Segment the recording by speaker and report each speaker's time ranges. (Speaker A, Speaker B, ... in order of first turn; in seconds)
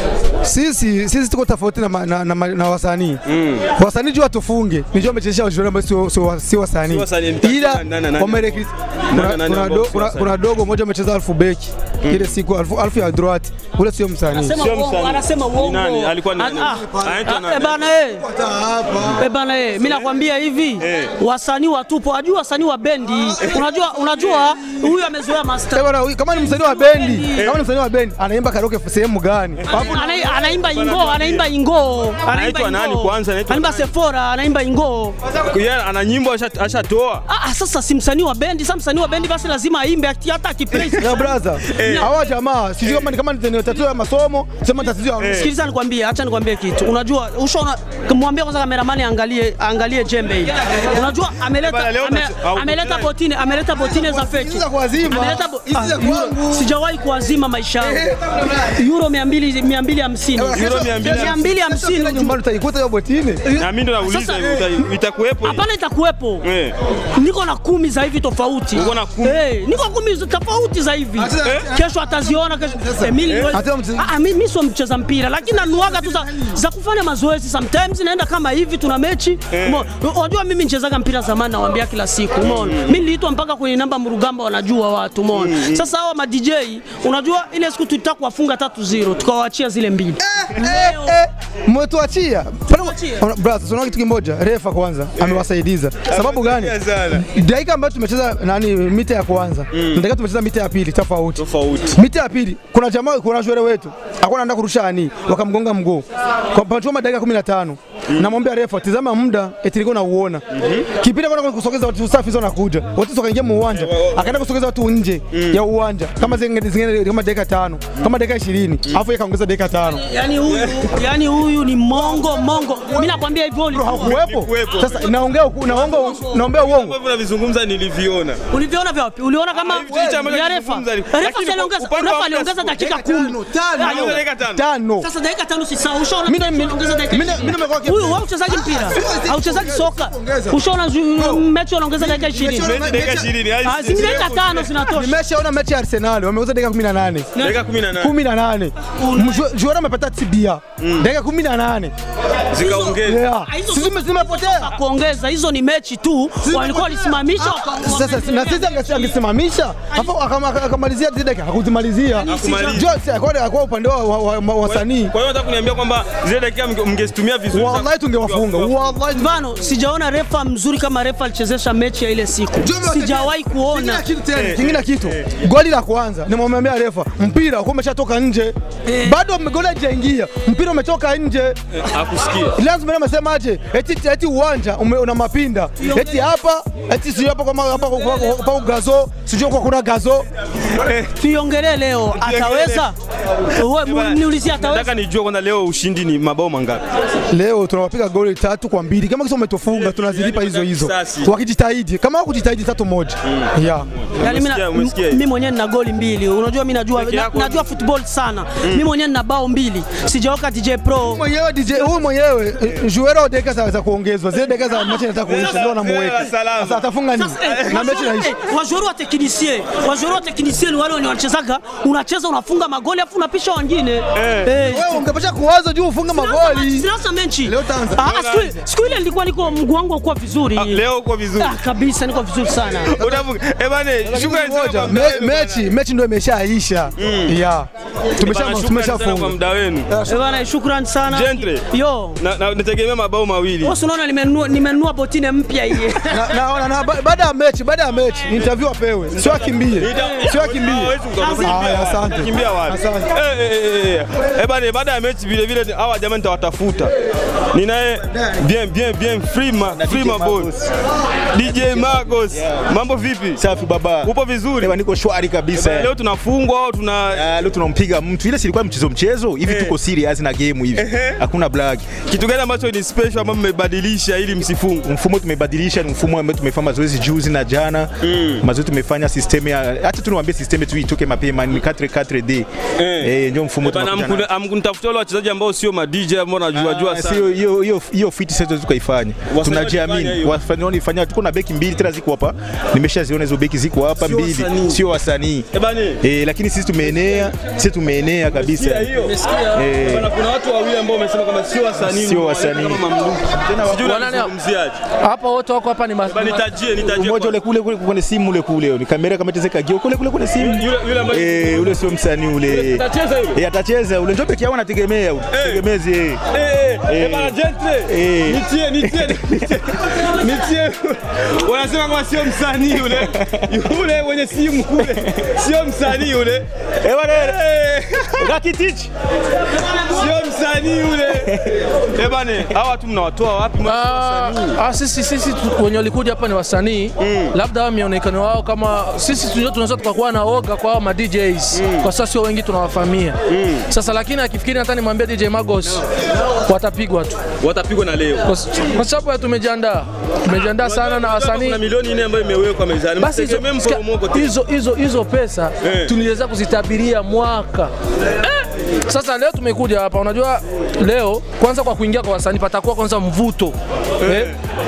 Speaker A: 0.5-3.2, 3.8-14.6, 16.7-17.2, 18.2-19.2, 25.7-30.1, 40.9-45.5, 53.8-56.7, 57.8-58.8, 60.3-63.6, 64.3-64.6, 71.2-74.0, 75.4-76.5, 90.2-101.4, 101.9-110.4, 111.0-120.0, 123.7-127.0, 129.7-130.3, 132.8-135.1, 136.2-140.6, 141.1-141.4, 142.0-144.3, 144.8-147.3, 148.0-151.9, 153.0-154.7, 156.4-165.1, 167.5-169.3, 172.6-181.6, 182.6-190.2, 197.3-203.9, 211.0-218.3, 224.6-226.9, 227.4-228.4, 234.0-239.3, 239.9-240.2, 246.1-253.1
Speaker B: 3.3-3.6, 6.9-10.3, 12.0-12.4, 14.6-17.8, 19.8-20.1, 20.8-21.1, 24.1-24.4, 27.4-27.6, 29.6-31.5, 32.3-33.9, 35.5-37.2, 41.7-42.1, 45.2-45.5, 51.6-53.1, 60.5-61.4, 63.6-65.6, 66.4-66.7, 68.7-69.4, 71.4-71.7, 73.2-73.5, 79.5-79.8, 82.4-83.0, 85.3-85.8, 95.2-95.5, 96.0-97.2, 99.7-100.0, 101.4-102.0, 110.6-110.8, 113.7-114.3, 115.3-115.6, 120.5-120.8, 123.9-128.4, 129.6-132.8, 133.8-134.6, 142.6-144.7, 147.4-148.1, 150.8-151.1, 152.5-153.2, 162.2-162.9, 164.6-168.9, 174.3-175.3, 181.8-182.5, 190.8-191.1, 192.2-192.9, 193.8-196.8, 199.7-201.3, 203.2-203.5, 204.1-205.2, 206.9-207.7, 215.2-216.8, 217.5-218.0, 224.1-224.5, 228.0-228.5, 230.5-231.6, 232.9-235.7, 237.0-237.3, 238.2-239.9, 241.1-241.7, 242.2-243.7, 249.2-256.9, 257.5-260.5, 261.3-263.4, 264.0-264.8, 265.6-267.2, 269.4-269.7, 270.8-271.2, 272.1-274.9, 278.0-278.4, 282.8-287.3, 289.3-290.4, 294.0-294.8, 295.5-296.0, 298.3-304.8, 306.1-307.4, 310.4-311.8, 312.4-313.4, 315.3-315.6, 316.3-326.4, 327.0-328.3, 329.9-331.3, 331.9-334.6, 337.0-337.3, 341.5-341.9, 343.3-343.6, 347.4-348.3, 350.3-354.3, 355.6-355.9, 364.0-364.4
Speaker C: 14.3-18.2, 19.2-27.6, 29.7-35.2, 37.3-42.1, 45.3-58.1, 58.7-62.4, 64.0-64.6, 65.4-66.5, 67.1-91.2, 92.7-93.2, 119.9-124.2, 128.5-134.2, 135.0-142.8, 143.6-145.2, 149.0-149.4, 152.6-159.2, 162.1-162.8, 169.1-174.1, 178.9-179.1, 185.8-186.2, 191.2-192.9, 193.5-194.9, 204.2-211.2, 217.2-225.1, 226.1-230.8, 231.4-233.2, 240.1-242.2, 243.6-246.2, 251.2-251.9
Speaker D: 258.1-258.4, 259.7-260.7, 261.4-262.6, 263.4-265.9, 267.1-271.9, 274.8-282.5, 283.0-284.3, 286.5-295.4, 296.0-299.0, 299.5-300.1, 301.8-302.8, 303.4-304.1, 306.9-316.2, 316.9-317.3, 317.9-319.5, 322.9-323.4, 324.8-325.0, 326.8-327.4, 328.2-328.9
Speaker E: 299.0-299.6, 303.8-304.3, 305.0-306.5, 333.6-343.2, 343.7-345.8, 346.4-347.2, 348.2-351.6, 353.0-357.7, 358.2-364.3